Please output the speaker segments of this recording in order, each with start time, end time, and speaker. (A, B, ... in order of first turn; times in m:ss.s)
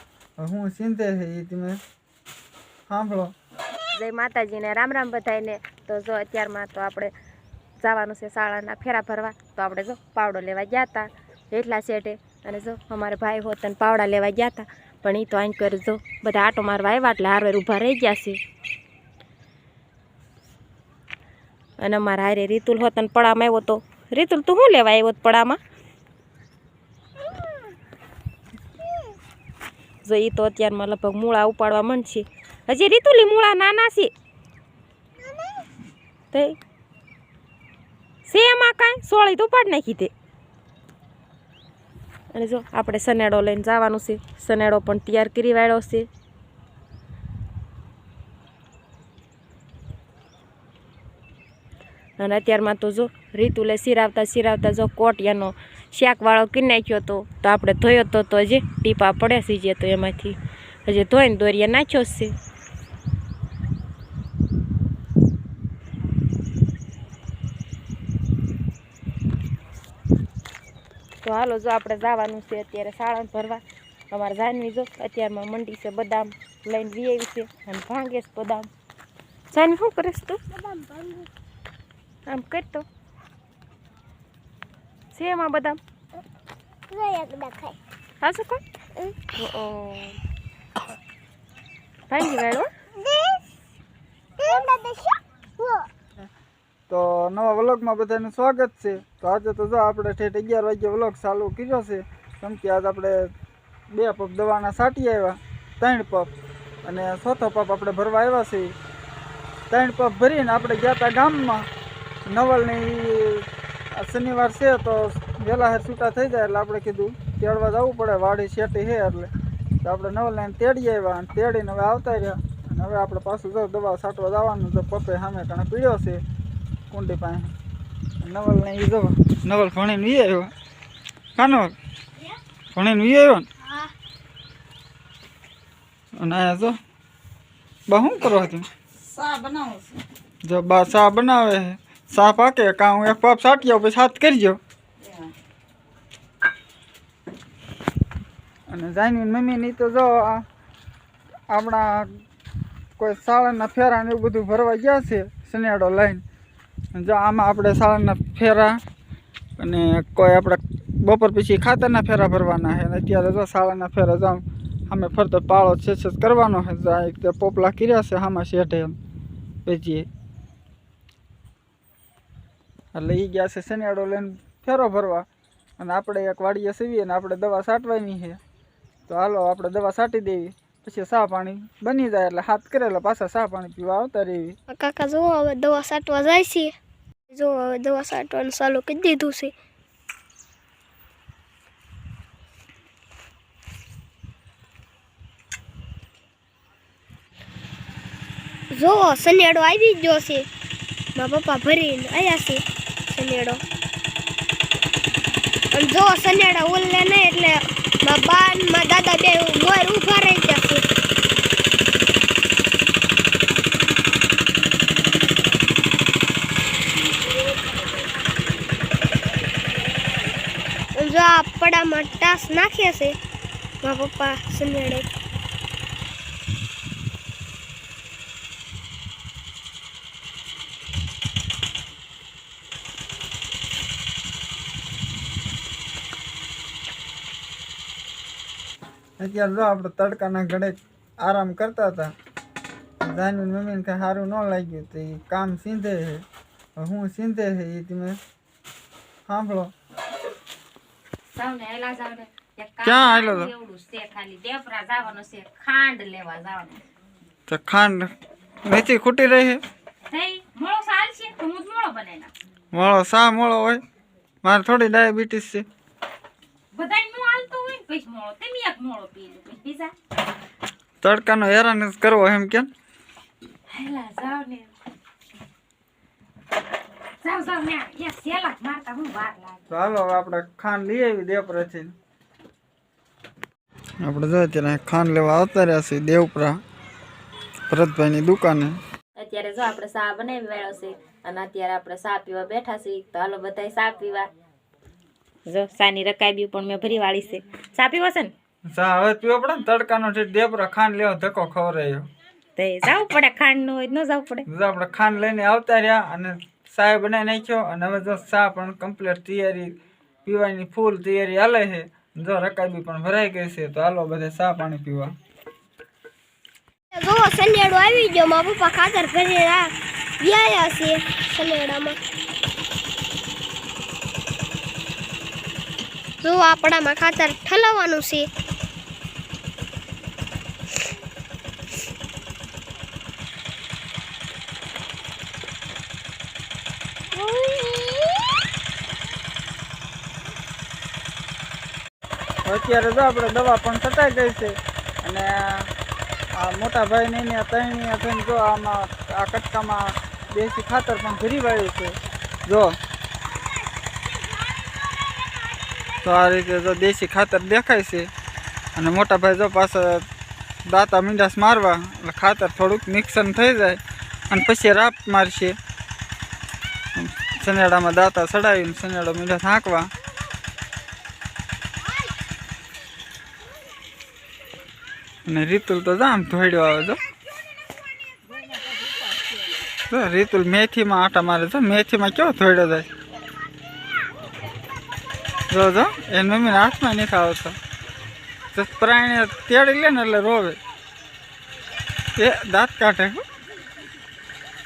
0:00.4-0:01.8 A
0:02.9-0:03.3 A
0:03.9-0:07.1 B
0:07.8-0:18.4 B
0:21.8-0:25.6 B
0:30.0-0:34.1 B
0:36.3-0:36.6 B
0:38.3-0:40.1 B
0:42.3-0:46.1 B
0:52.2-1:02.3 B
1:11.2-1:18.7 B
1:19.5-1:20.4 B
1:20.6-1:21.3 C
1:22.3-1:22.9 B
1:25.1-1:25.8 B
1:26.9-1:27.8 C
1:28.2-1:28.6 B
1:29.4-1:30.2 B
1:32.1-1:32.7 B
1:34.4-1:35.1 C
1:36.9-1:43.2 A
1:43.9-1:46.3 A
1:46.8-1:48.7 A
1:49.7-1:51.7 A
1:52.3-1:59.3 A
1:59.8-2:06.2 A
2:06.9-2:07.5 A
2:08.2-2:10.5 A
2:11.4-2:11.8 A
2:12.7-2:13.5 A
2:16.2-2:16.8 A
2:17.9-2:18.7 A
2:19.1-2:19.9 B
2:20.4-2:24.6 A
2:28.7-2:30.4 A
2:31.5-2:32.2 A
2:33.0-2:36.2 A
2:36.9-2:38.8 A
2:39.6-2:49.0 A
2:49.6-2:50.1 A
2:52.9-2:55.3 A
2:55.8-2:58.4 A
2:59.1-3:04.6 A
3:04.7-3:06.7 C
3:07.3-3:09.5 C
3:18.7-3:20.5 C
3:21.2-3:23.6 C
3:25.7-3:30.8 C
3:41.0-3:43.2 C
3:43.8-3:45.1 C
3:59.2-4:02.1 A
4:03.0-4:06.2 A
4:06.8-4:08.2 A
4:09.3-4:09.7 A
4:11.3-4:16.8 B
4:12.8-4:13.5 A
4:17.5-4:18.1 A
4:18.6-4:19.6 A
4:20.1-4:22.3 B
4:22.7-4:23.8 A
4:24.4-4:25.7 A
4:26.7-4:29.9 B
4:31.0-4:32.7 A
4:33.7-4:34.7 B
4:37.2-4:39.7 B
4:39.7-4:41.9 A
4:44.0-4:46.6 A
4:47.7-4:48.8 A
4:49.2-4:54.3 B
4:55.5-4:58.3 B
4:58.7-5:02.1 A
5:02.6-5:04.5 B
5:04.5-5:15.2 A
5:16.9-5:22.0 C
5:26.2-5:28.3 C
5:37.4-5:37.9 C
5:42.4-5:45.7 A
5:46.4-5:52.8 A
5:56.0-5:58.1 A
5:58.8-6:00.1 A
6:00.7-6:05.6 A
6:07.0-6:09.9 A
6:15.3-6:17.0 A
6:19.9-6:22.9 A
6:25.5-6:27.6 A
6:28.5-6:30.6 A
6:32.2-6:33.2 A